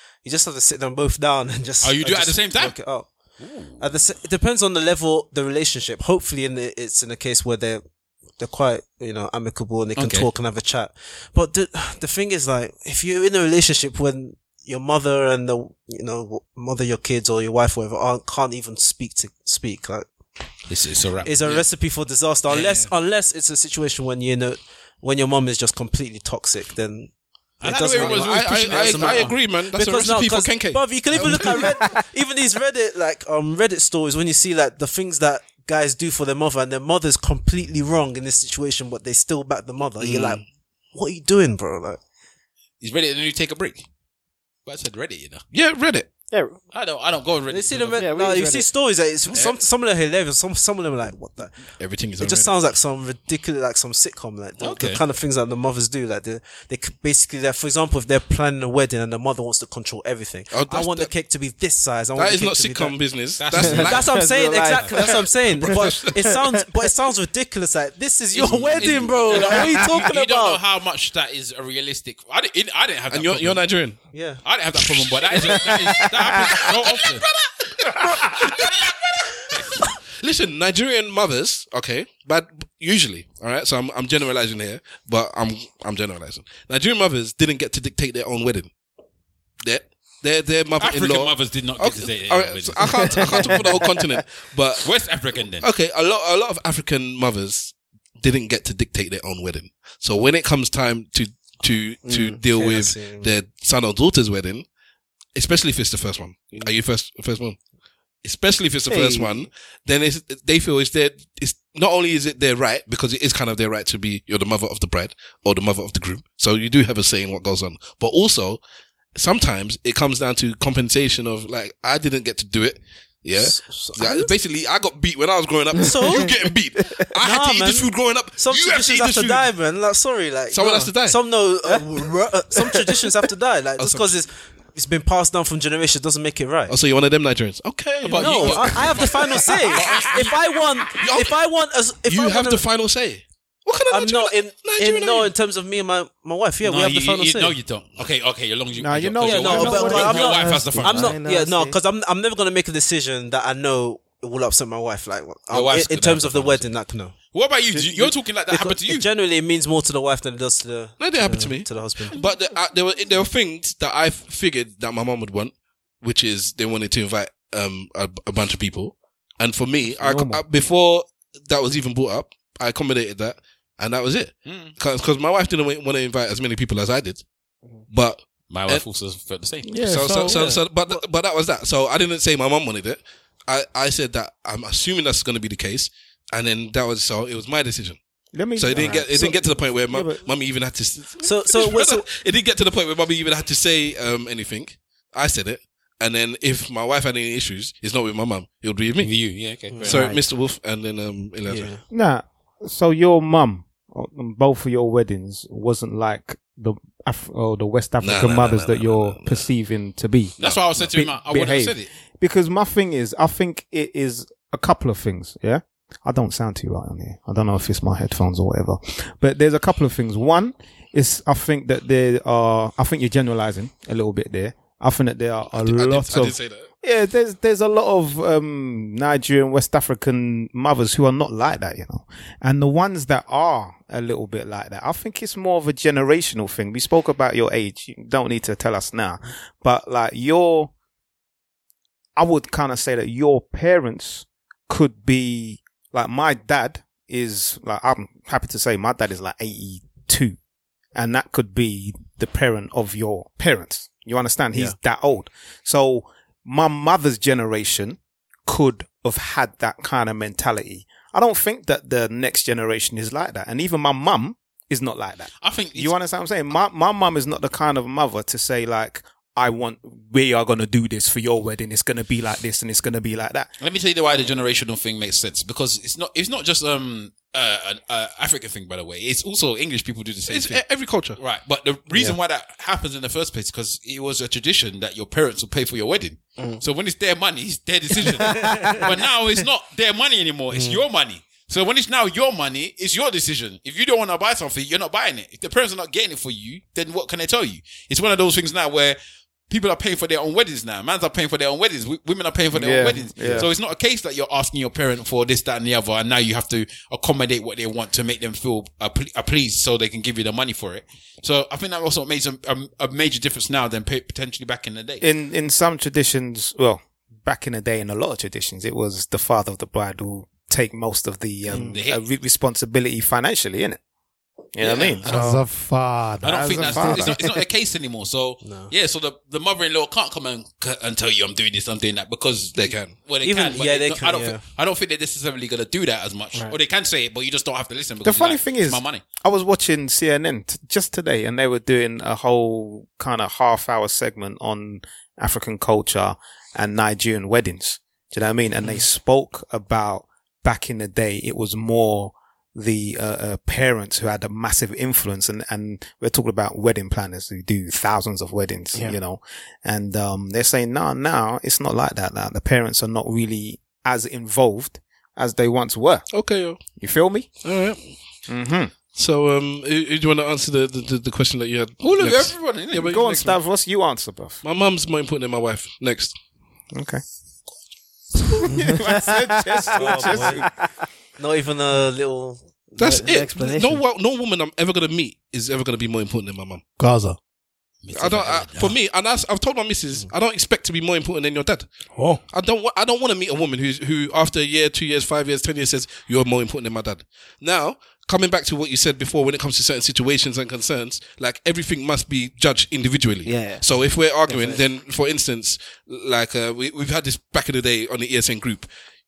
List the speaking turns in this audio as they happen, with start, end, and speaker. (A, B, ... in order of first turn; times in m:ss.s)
0:00.2-0:07.8 A
0:01.8-0:03.8 B
0:08.4-0:20.1 A
0:10.0-0:10.3 B
0:20.7-0:21.6 B
0:21.2-0:40.4 A
0:22.5-0:22.9 C
0:27.6-0:29.4 B
0:28.0-0:31.7 C
0:31.2-0:32.0 D
0:40.0-0:40.4 C
0:40.9-0:42.0 A
0:42.8-0:43.8 B
0:44.6-0:45.4 B
0:45.5-0:46.1 C
0:46.3-0:46.6 D
0:46.7-0:48.0 B
0:47.5-0:51.6 A
0:48.0-0:48.7 D
0:51.8-0:52.5 C
0:52.2-1:03.0 A
0:54.6-0:55.0 B
1:00.5-1:01.1 C
1:02.2-1:04.2 C
1:03.4-1:04.1 B
1:03.5-1:05.3 D
1:03.7-1:10.6 A
1:04.9-1:06.3 C
1:06.0-1:06.6 D
1:08.3-1:13.7 B
1:09.3-1:09.9 D
1:13.1-1:14.0 C
1:14.1-1:14.4 A
1:14.4-1:17.4 B
1:19.5-1:19.8 B
1:20.2-1:28.7 C
1:29.6-1:34.9 C
1:30.8-1:33.7 B
1:34.8-1:35.6 B
1:35.6-1:44.6 C
1:42.0-1:42.4 D
1:42.5-1:43.3 A
1:45.3-1:47.6 C
1:48.2-1:58.6 C
1:48.9-1:49.4 D
1:59.1-2:09.5 C
2:03.3-2:04.3 A
2:05.8-2:06.3 A
2:07.2-2:16.7 A
2:10.5-2:11.2 C
2:13.8-2:14.1 C
2:16.7-2:20.3 C
2:18.0-2:20.4 B
2:18.1-2:22.6 A
2:20.9-2:21.4 C
2:22.0-2:25.3 C
2:23.9-2:27.6 A
2:26.6-2:31.2 B
2:28.8-2:31.1 E
2:29.2-2:37.2 A
2:29.8-2:31.8 D
2:35.5-2:36.7 B
2:37.3-2:39.1 B
2:37.8-2:42.2 A
2:41.0-2:57.2 C
2:50.0-2:50.4 E
2:54.4-2:54.7 B
2:57.9-2:58.8 C
2:58.5-2:59.8 B
2:59.6-3:00.5 E
2:59.8-3:08.0 C
3:00.2-3:01.0 A
3:08.3-3:10.3 E
3:08.6-3:19.1 C
3:11.2-3:12.0 A
3:19.0-3:20.0 B
3:19.7-3:20.1 A
3:19.8-3:21.7 C
3:19.9-3:20.2 D
3:21.5-3:21.8 A
3:21.9-4:00.7 E
3:28.0-3:29.5 C
3:30.4-3:31.9 B
3:30.5-3:30.9 C
3:45.5-3:46.7 C
4:02.2-4:10.4 E
4:10.9-4:33.5 E
4:25.4-4:26.0 B
4:33.6-4:40.6 B
4:40.3-4:41.2 C
4:41.2-5:15.0 B
4:48.1-4:48.8 D
5:02.5-5:03.5 E
5:15.0-5:23.8 E
5:21.5-5:21.8 D
5:21.5-5:22.0 B
5:24.5-5:25.5 E
5:24.6-5:25.1 B
5:25.0-5:27.1 F
5:26.2-5:39.0 B
5:26.2-5:27.3 E
5:28.4-5:28.7 A
5:32.6-5:32.9 C
5:33.2-5:34.4 A
5:38.0-6:06.1 E
6:06.1-6:06.6 C
6:06.8-6:07.3 E
6:07.4-6:08.0 C
6:08.3-6:08.7 E
6:08.9-6:13.1 C
6:11.8-6:13.4 B
6:12.8-6:14.4 E
6:14.4-6:16.1 C
6:16.7-6:17.0 E
6:18.2-6:20.5 E
6:18.6-6:18.9 D
6:19.5-6:20.7 D
6:19.7-6:20.5 A
6:21.2-6:22.5 A
6:22.7-6:23.8 D
6:22.8-6:26.6 C
6:26.8-6:27.2 F
6:27.8-6:28.8 B
6:27.9-6:31.7 C
6:31.9-6:32.2 F
6:32.3-6:48.7 C
6:43.2-6:44.6 D